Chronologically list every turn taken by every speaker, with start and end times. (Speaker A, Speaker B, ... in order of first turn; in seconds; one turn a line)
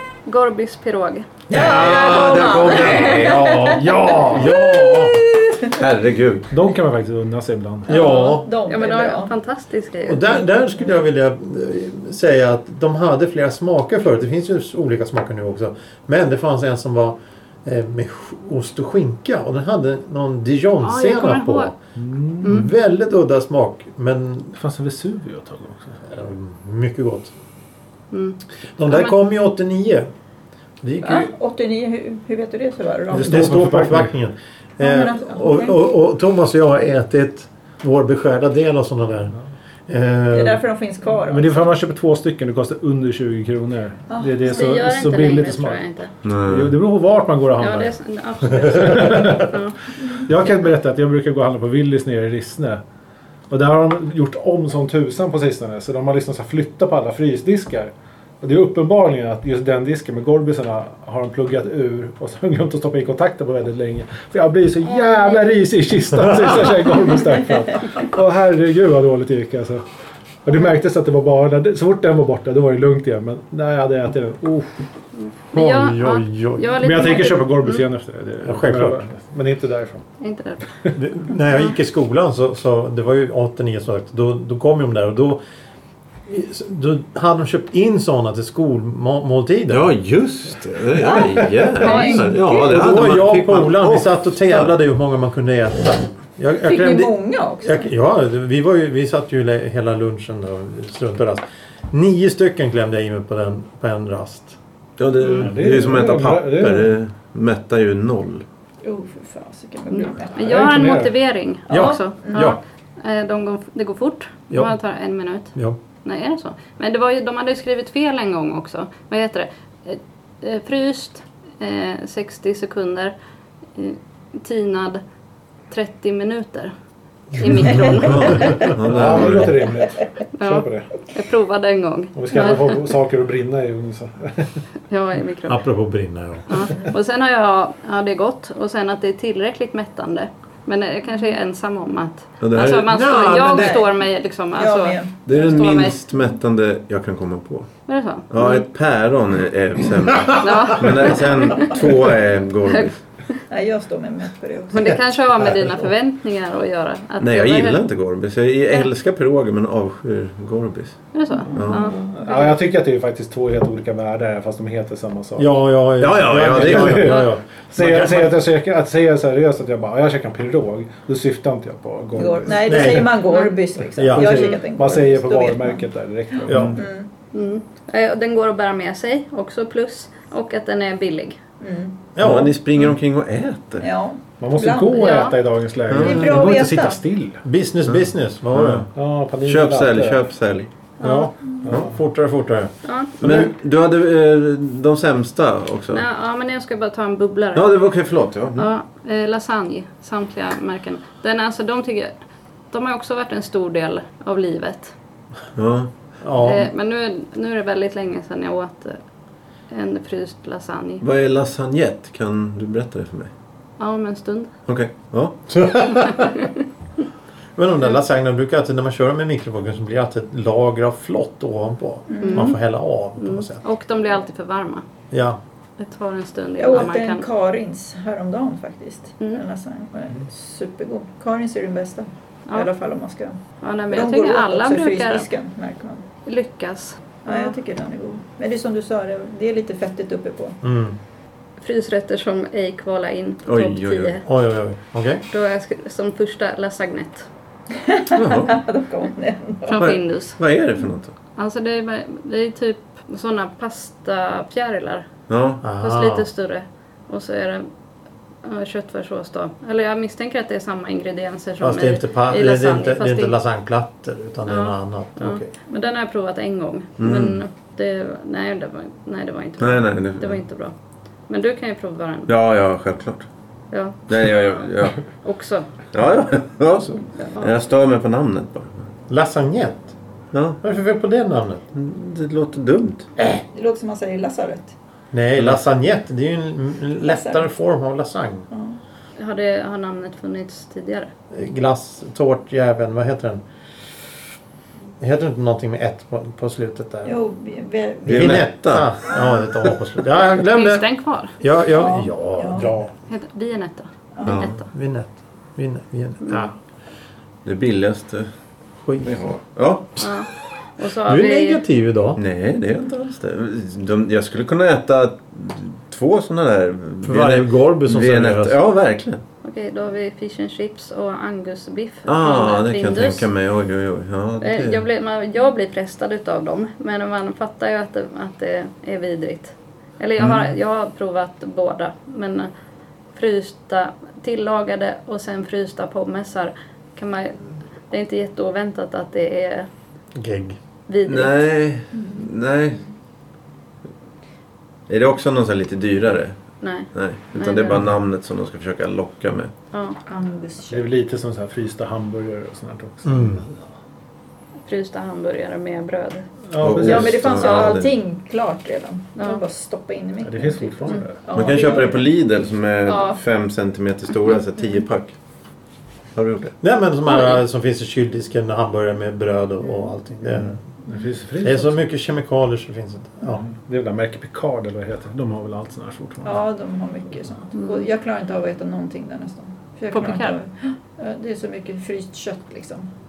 Speaker A: 0.3-1.3
Speaker B: 1.5-5.2
Speaker C: 1.5-5.8
Speaker D: 1.5-3.6
Speaker E: 3.8-4.5
Speaker D: 5.6-6.5
Speaker E: 6.5-7.9
Speaker B: 7.9-8.5
Speaker C: 7.9-9.3
Speaker A: 8.1-10.4
Speaker B: 10.1-21.8
Speaker A: 20.8-21.7
Speaker E: 22.0-22.7
Speaker A: 22.4-22.7
Speaker B: 22.4-24.5
Speaker E: 24.5-26.0
Speaker B: 26.1-27.3
Speaker A: 28.1-29.2
Speaker B: 28.8-30.1
Speaker B: 30.8-31.3
Speaker C: 31.0-33.5
Speaker E: 33.1-34.1
Speaker B: 33.1-39.3
Speaker C: 34.8-35.8
Speaker B: 39.9-40.6
Speaker C: 40.3-41.7
Speaker E: 41.2-48.0
Speaker C: 44.1-44.6
Speaker A: 44.4-46.1
Speaker D: 46.2-46.8
Speaker A: 47.6-49.8
Speaker E: 48.6-49.5
Speaker E: 50.1-52.8
Speaker E: 53.5-69.8
Speaker E: 70.5-74.8
Speaker A: 75.2-77.8
Speaker B: 75.5-77.2
Speaker E: 76.8-80.0
Speaker B: 78.4-79.0
Speaker A: 80.2-80.7
Speaker B: 81.0-85.4
Speaker B: 86.3-89.9
Speaker D: 89.7-94.8
Speaker C: 91.8-92.7
Speaker A: 91.8-92.3
Speaker B: 92.0-104.6
Speaker C: 96.6-97.9
Speaker D: 105.0-108.4
Speaker E: 105.2-106.9
Speaker C: 108.8-110.6
Speaker A: 109.9-123.2
Speaker E: 110.4-111.2
Speaker B: 111.7-112.6
Speaker C: 111.7-112.5
Speaker A: 123.8-125.0
Speaker A: 125.7-126.7
Speaker A: 127.3-128.7
Speaker B: 127.5-128.6
Speaker D: 128.0-129.6
Speaker E: 128.8-130.9
Speaker A: 130.3-132.8
Speaker E: 132.2-134.6
Speaker A: 134.9-135.6
Speaker B: 135.5-136.7
Speaker A: 136.5-146.0
Speaker D: 142.4-143.0
Speaker B: 142.9-143.8
Speaker C: 143.5-143.9
Speaker C: 144.5-145.7
Speaker D: 145.3-147.7
Speaker A: 147.9-148.7
Speaker D: 148.3-153.0
Speaker A: 150.3-151.9
Speaker A: 152.7-153.4
Speaker C: 153.5-155.0
Speaker A: 154.7-157.8
Speaker B: 155.4-155.8
Speaker D: 157.2-161.0
Speaker A: 161.1-162.0
Speaker E: 161.4-173.1
Speaker D: 161.5-161.9
Speaker B: 165.4-168.4
Speaker D: 166.0-167.2
Speaker C: 172.2-175.9
Speaker B: 172.5-173.2
Speaker A: 173.2-173.6
Speaker B: 173.9-174.6
Speaker E: 174.1-176.8
Speaker B: 176.5-176.8
Speaker C: 176.7-177.1
Speaker A: 177.3-181.4
Speaker C: 181.6-182.0
Speaker B: 182.2-182.6
Speaker D: 182.2-183.9
Speaker C: 183.8-185.3
Speaker E: 184.4-187.4
Speaker A: 184.9-185.4
Speaker D: 185.9-186.5
Speaker C: 185.9-187.0
Speaker B: 187.4-188.9
Speaker D: 188.5-188.9
Speaker E: 188.9-190.2
Speaker D: 189.4-190.7
Speaker A: 191.0-191.3
Speaker E: 191.0-192.0
Speaker B: 191.1-193.5
Speaker A: 192.8-193.1
Speaker D: 193.2-196.0
Speaker A: 195.9-197.7
Speaker D: 197.6-198.7
Speaker A: 198.6-202.2
Speaker A: 202.7-204.9
Speaker D: 205.6-205.9
Speaker B: 206.2-206.7
Speaker A: 206.4-209.0
Speaker A: 209.7-211.0
Speaker D: 211.0-213.3
Speaker A: 213.8-214.5
Speaker D: 214.7-215.6
Speaker B: 215.5-216.4
Speaker A: 216.0-216.5
Speaker B: 217.6-223.6
Speaker C: 222.1-222.5
Speaker A: 222.2-222.6
Speaker A: 223.2-224.8
Speaker B: 225.1-225.4
Speaker A: 225.8-227.3
Speaker C: 226.6-236.1
Speaker A: 233.6-235.3
Speaker A: 236.2-237.5
Speaker C: 237.2-240.6
Speaker B: 240.6-241.0
Speaker A: 241.6-244.3
Speaker D: 243.5-244.2
Speaker B: 244.3-245.2
Speaker A: 245.3-247.3
Speaker C: 247.7-249.8
Speaker D: 248.2-248.6
Speaker A: 249.7-250.4
Speaker D: 249.8-251.1
Speaker A: 251.3-255.1
Speaker D: 255.3-255.6
Speaker B: 255.6-256.3
Speaker A: 255.8-257.7
Speaker A: 258.4-263.4
Speaker B: 261.6-265.5
Speaker A: 264.5-270.8
Speaker D: 267.0-267.4
Speaker D: 269.6-270.4
Speaker A: 271.3-272.3
Speaker D: 272.3-273.3
Speaker A: 273.7-274.3
Speaker D: 274.1-275.0
Speaker A: 275.2-275.7
Speaker D: 275.9-278.9
Speaker B: 279.1-279.9
Speaker D: 280.3-280.6
Speaker B: 280.6-281.6
Speaker D: 281.7-283.1
Speaker C: 283.3-284.7
Speaker B: 285.1-288.5
Speaker C: 287.0-287.4
Speaker C: 288.5-288.8
Speaker A: 289.2-291.1
Speaker B: 291.3-293.4
Speaker B: 295.0-297.2
Speaker C: 297.1-298.4
Speaker B: 298.1-300.9
Speaker D: 298.1-298.9
Speaker A: 300.5-301.4
Speaker B: 301.4-302.9
Speaker C: 301.7-302.7
Speaker A: 303.1-304.7
Speaker C: 304.1-304.5
Speaker D: 304.3-304.6
Speaker B: 304.7-306.5
Speaker A: 306.2-306.5
Speaker D: 307.4-308.3
Speaker B: 308.8-309.2
Speaker D: 309.0-310.1
Speaker A: 310.0-311.6
Speaker B: 311.1-312.2
Speaker D: 312.2-319.2
Speaker B: 317.0-318.6
Speaker A: 319.4-323.3
Speaker D: 322.1-324.8
Speaker A: 324.4-332.5
Speaker A: 333.1-337.4
Speaker A: 337.9-339.7
Speaker B: 340.2-340.6
Speaker A: 340.9-341.5
Speaker D: 341.1-342.8
Speaker C: 341.9-342.3
Speaker D: 344.9-346.4
Speaker A: 346.6-347.8
Speaker D: 346.9-349.5
Speaker A: 349.7-350.0
Speaker C: 350.1-350.9
Speaker E: 350.7-353.6
Speaker B: 353.1-353.4
Speaker A: 354.7-356.3
Speaker E: 356.5-357.7
Speaker D: 356.6-357.9
Speaker C: 356.8-362.1
Speaker A: 359.2-359.4
Speaker E: 360.2-361.3
Speaker A: 360.9-361.9
Speaker D: 361.3-365.1
Speaker A: 362.9-363.2
Speaker D: 366.2-366.5
Speaker B: 366.6-370.6
Speaker A: 367.1-367.4
Speaker E: 370.9-371.8
Speaker B: 371.4-373.4
Speaker E: 373.3-376.4
Speaker C: 376.2-382.9
Speaker A: 377.6-377.8
Speaker A: 379.9-380.4